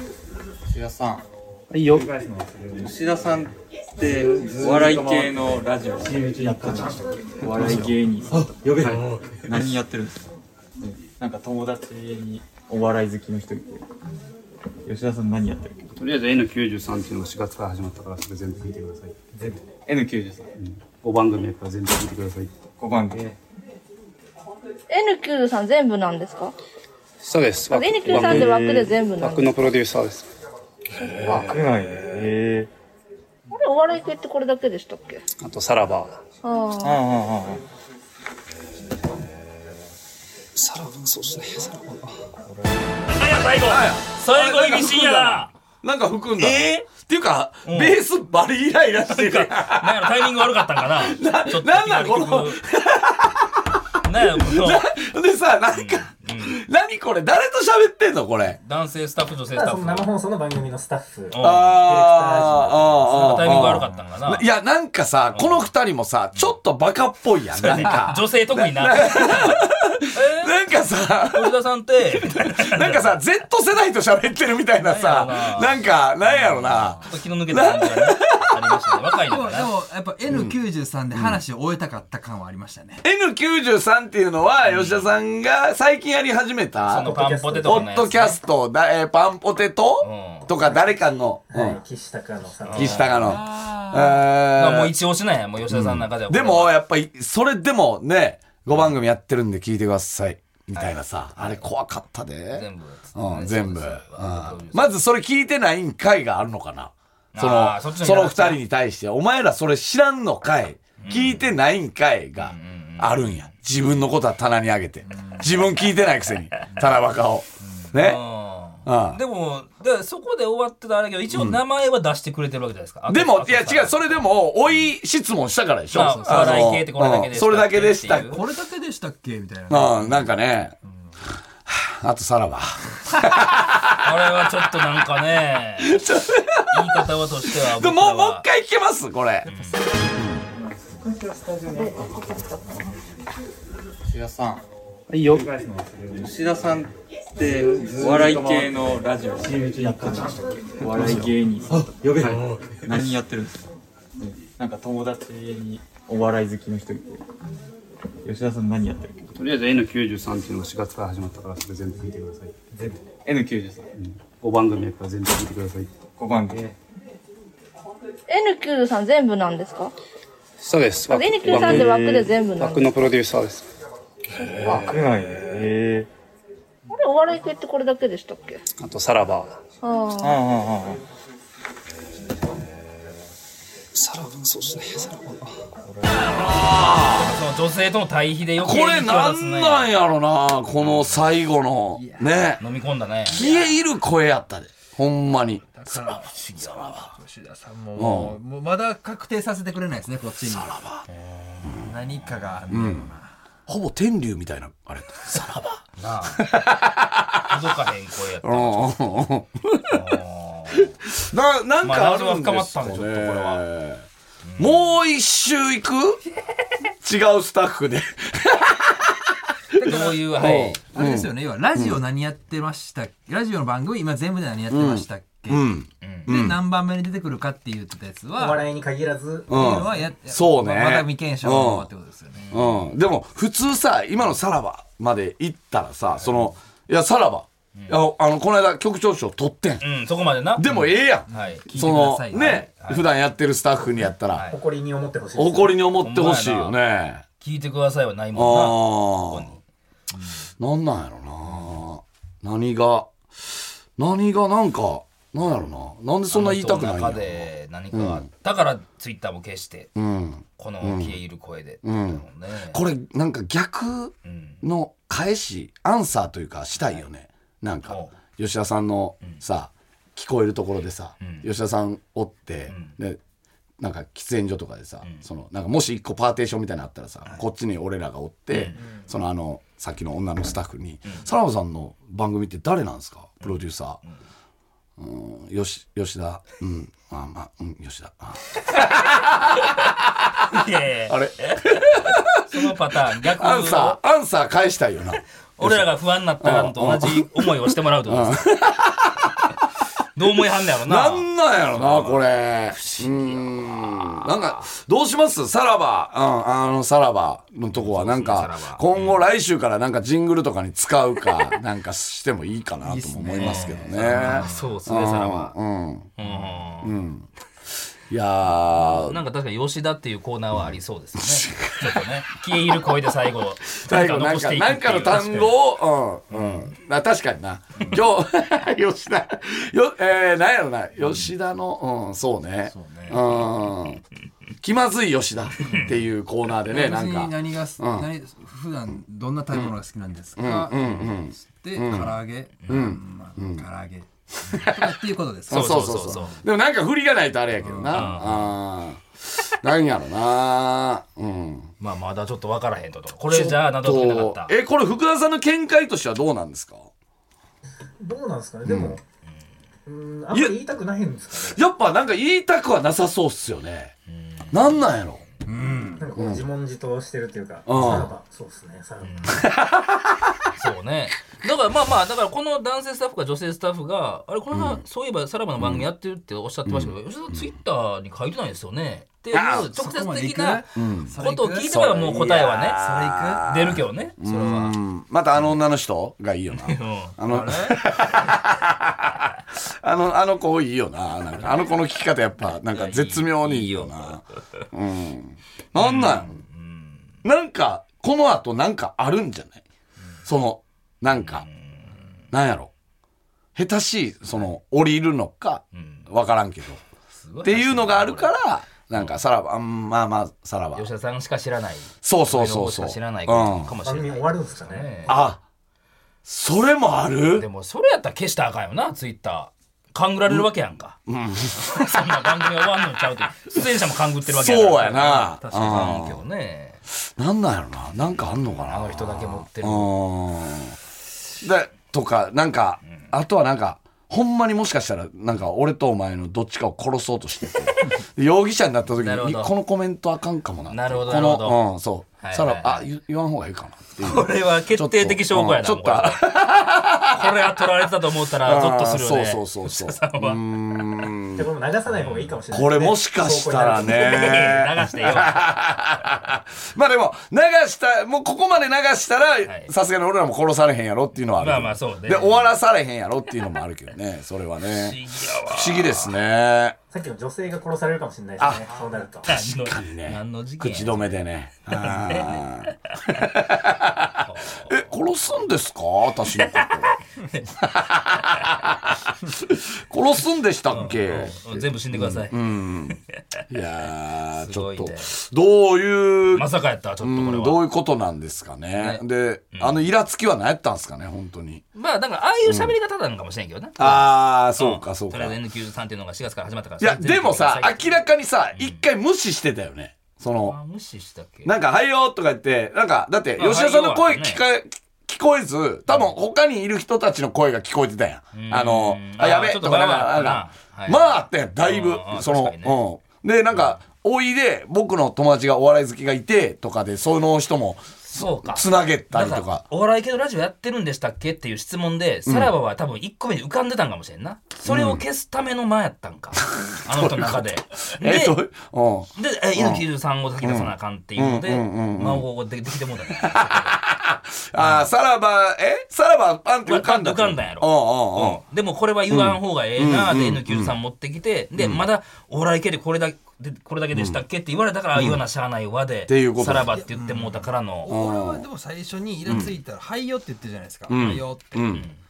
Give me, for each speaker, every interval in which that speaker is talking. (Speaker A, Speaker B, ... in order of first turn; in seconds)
Speaker A: 0.7-10.3, 10.8-13.8, 14.8-15.9, 19.3-20.5, 22.8-23.4, 28.1-28.4, 31.1-32.7, 36.8-37.6, 140.5-142.4, 144.0-157.2, 158.2-159.3, 162.7-163.9, 166.2-166.7, 171.4-171.9, 174.5-176.1, 180.2-181.0
Speaker B: 4.7-5.0, 7.6-7.9, 15.9-19.2, 20.6-22.6, 27.2-30.3, 35.4-36.1, 40.5-42.2, 150.9-151.3, 159.3-162.6, 163.9-165.9, 170.6-173.6, 178.8-179.6, 183.9-185.6
Speaker C: 24.9-26.5, 27.7-29.6, 33.5-35.2, 36.4-37.0, 141.7-142.9, 168.3-169.9, 171.1-173.0, 174.4-174.8, 176.9-178.6, 179.8-180.4
Speaker D: 43.1-45.5, 46.4-46.9, 47.6-48.0, 49.0-52.6, 54.0-54.8, 55.7-56.6, 58.6-60.1, 61.3-61.8, 63.1-64.5, 65.3-65.7, 67.5-70.5, 71.3-73.2, 74.8-79.7, 84.6-85.1, 86.8-88.4, 90.0-90.5, 92.6-93.3, 94.5-96.8, 100.7-101.7, 102.5-104.9, 107.3-108.6, 111.0-111.5, 112.4-113.4, 117.9-124.2, 125.9-128.4, 134.0-136.0, 136.7-138.4, 139.4-139.8, 187.1-189.9, 190.8-191.3, 192.6-193.5, 201.2-201.7, 206.0-206.5, 207.4-208.9, 209.9-210.9, 211.8-213.6, 214.4-214.9, 219.8-220.8, 226.0-226.3, 232.3-232.8, 236.2-236.5, 237.7-238.0, 239.8-241.7, 242.4-243.0, 244.3-244.6, 246.0-246.8, 247.4-249.6, 256.3-259.9, 260.6-262.8, 264.2-264.6, 267.9-268.1, 271.2-271.5, 278.5-278.8, 290.5-294.0, 295.6-298.5, 300.1-304.7, 307.7-309.2, 313.4-315.6, 316.2-316.9, 318.7-325.6, 326.3-326.7, 345.5-346.4, 347.9-348.5, 351.8-354.5, 364.1-364.7, 367.7-368.0, 369.0-369.4, 370.5-382.8, 383.5-384.8, 386.5-388.3, 391.4-391.7, 392.7-394.6, 395.8-397.2, 401.1-402.2, 405.7-406.1, 407.1-408.3, 408.9-409.2, 410.7-415.2, 417.3-421.0, 421.6-426.8, 428.6-429.9, 439.0-439.5, 440.7-441.6, 442.2-442.8, 444.0-446.3, 447.1-450.9, 451.9-452.4, 453.8-455.5, 459.4-459.7, 461.4-462.5, 464.6-466.1, 469.2-471.2, 471.8-472.7, 474.2-474.9, 476.3-477.4, 480.7-482.3, 484.3-485.1, 486.3-487.6, 488.8-489.8, 491.7-498.8, 500.3-501.5, 503.4-504.4, 508.3-512.8, 518.0-528.4, 529.1-533.7, 534.6-534.9, 536.6-547.9
Speaker E: 43.3-50.3, 50.9-58.6, 61.4-71.5, 72.1-78.9, 80.3-80.5, 81.1-81.4, 83.0-91.8, 92.7-94.9, 95.7-118.2, 118.8-119.2, 121.3-121.6, 123.1-128.4, 129.7-130.7, 131.7-134.3, 135.8-139.5, 140.1-140.4, 186.2-187.3, 188.6-192.6, 193.2-197.1, 197.9-198.4, 200.5-201.0, 201.6-201.9, 202.7-203.1, 203.7-207.7, 208.4-210.0, 210.7-214.1, 214.6-216.2, 217.0-219.4, 219.9-222.0, 224.7-226.6, 229.5-231.9, 232.5-239.8, 240.6-244.5, 245.3-247.2, 248.3-249.5, 250.6-258.2, 259.9-261.2, 261.8-273.2, 273.8-284.0, 285.0-299.6, 300.8-317.3, 318.1-319.2, 321.2-323.0, 323.7-334.0, 334.6-338.1, 340.4-343.6, 344.4-351.7, 353.3-356.9, 358.6-359.0, 361.4-363.9, 364.5-365.2, 366.1-366.4, 367.6-368.1, 369.3-370.5, 374.5-374.8, 375.6-375.9, 376.6-377.4, 379.3-379.7, 380.7-381.1, 381.6-396.4, 397.2-399.6, 400.2-401.4, 402.3-402.7, 403.6-406.8, 407.4-410.9, 412.0-413.7, 415.1-415.4, 416.2-417.5, 421.1-422.2, 424.3-426.2, 427.2-430.8, 431.4-447.6, 448.4-451.5, 452.5-466.8, 468.4-468.6, 469.2-477.0, 477.5-486.5, 487.0-491.6, 492.4-492.7, 493.8-495.4, 496.8-500.6, 501.4-519.6, 522.2-522.5, 524.6-525.0, 526.5-529.8, 530.4-532.2, 533.1-538.4, 539.1-540.8, 541.5-541.8, 543.9-544.2, 544.9-545.2, 546.1-546.8, 547.9-548.4, 549.2-549.5, 550.9-551.9
Speaker F: 59.5-63.4, 86.9-88.0, 91.5-93.2, 228.3-229.8, 244.5-245.8, 358.0-359.0, 359.9-361.6, 366.0-369.4, 413.8-415.1, 451.3-454.3, 466.9-469.3
Speaker G: 76.5-77.1, 79.3-83.0, 93.1-94.3, 115.0-115.7, 125.9-126.8, 128.1-130.3, 130.8-131.1, 139.5-139.8, 191.9-192.5, 193.3-193.7, 195.7-200.8, 201.7-203.3, 219.7-225.7, 226.2-228.7, 229.5-232.5, 241.3-242.7, 312.8-314.8, 332.6-333.2, 336.7-346.3, 347.6-348.0, 365.5-366.1, 379.7-383.4, 546.7-551.8